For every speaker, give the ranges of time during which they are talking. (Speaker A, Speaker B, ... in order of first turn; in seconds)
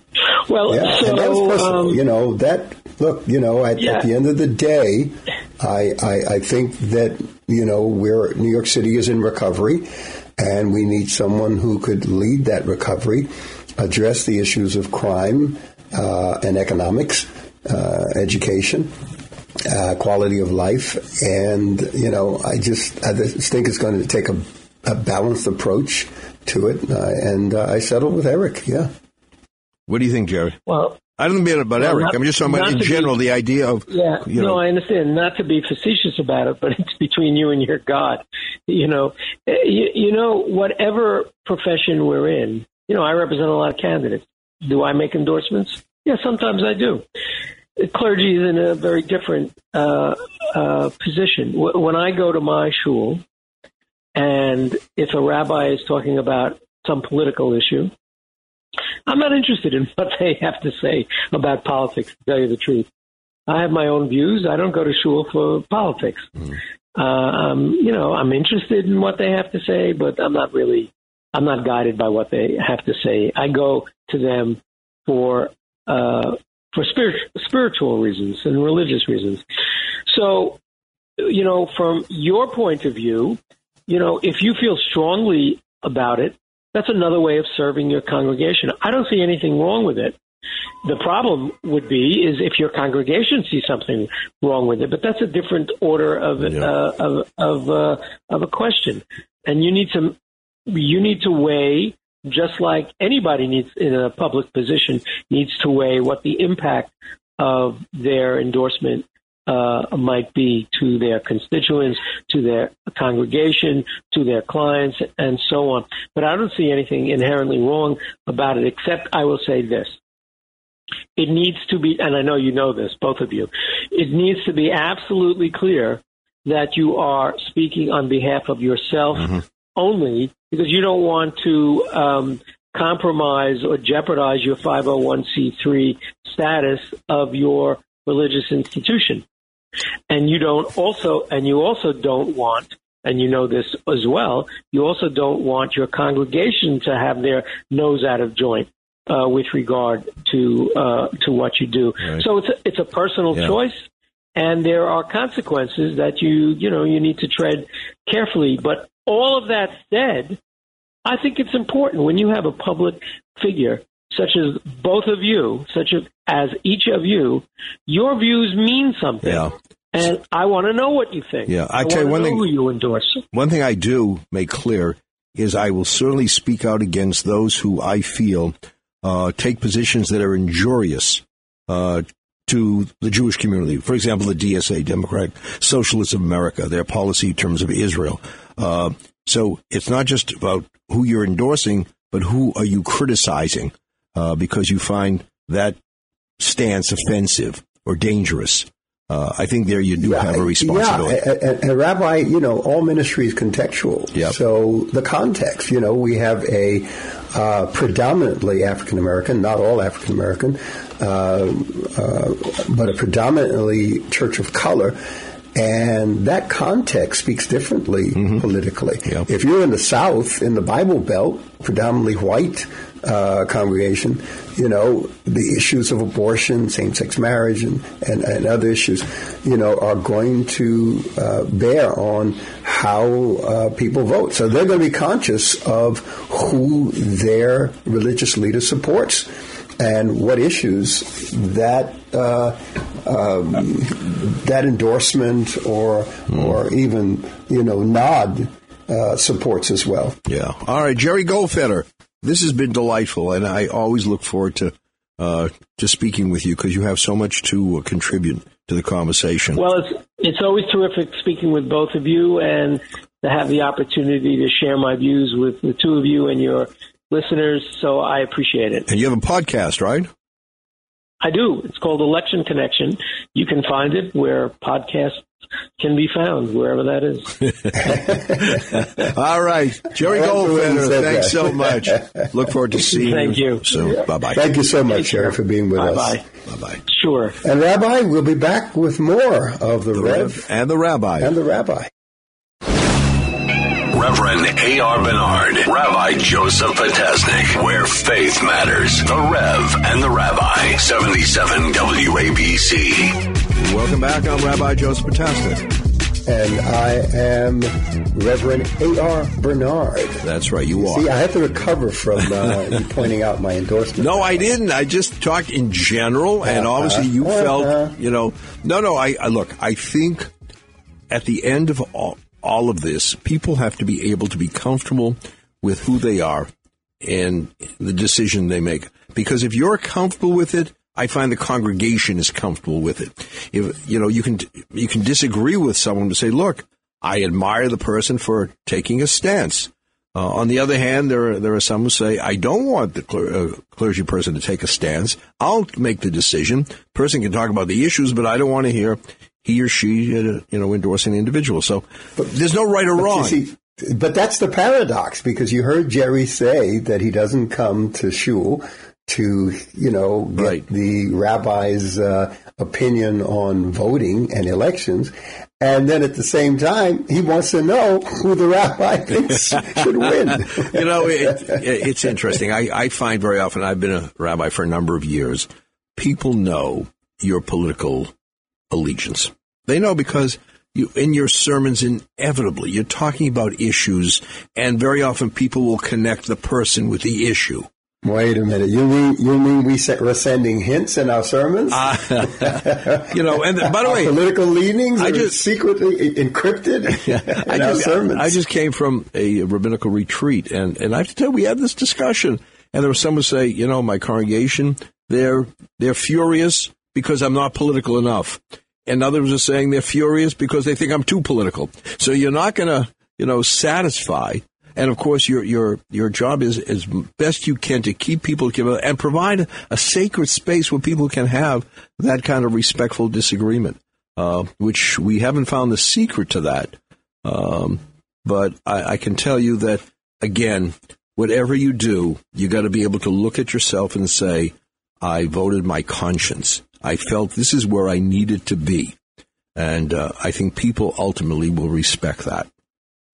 Speaker A: 0.5-2.0, 3.8-4.0, 30.7-31.0, 31.8-33.1, 33.9-47.0, 47.8-53.2, 54.2-57.9, 59.1-62.9, 63.5-66.3, 67.0-79.4, 80.1-80.6, 81.2-90.2, 90.8-100.2, 100.7-120.0, 121.2-139.2, 140.1-160.4, 161.1-173.2, 259.6-268.9, 271.2-275.2, 275.8-277.4, 283.0-284.0, 284.9-286.2, 286.9-287.4
Speaker B: 0.7-18.9, 19.6-28.9, 200.0-215.0, 215.6-250.2, 277.8-278.6, 280.0-282.0, 284.3-286.2, 287.4-290.4, 291.2-291.9, 306.2-314.6, 316.4-317.9, 353.0-371.6, 388.0-398.4
Speaker C: 29.9-34.6, 96.4-96.7, 169.2-169.5, 171.5-172.5, 173.3-195.8, 196.4-201.2, 218.2-218.4, 250.3-259.6, 268.9-270.1, 278.5-284.4, 286.5-286.8, 289.9-291.3, 303.6-305.7, 310.2-311.1, 314.0-320.3, 321.1-326.5, 327.0-353.4, 360.4-360.6, 370.6-378.1, 378.7-387.7, 391.7-394.1, 395.0-395.4, 397.1-439.0, 439.6-442.5
Speaker D: 293.6-303.2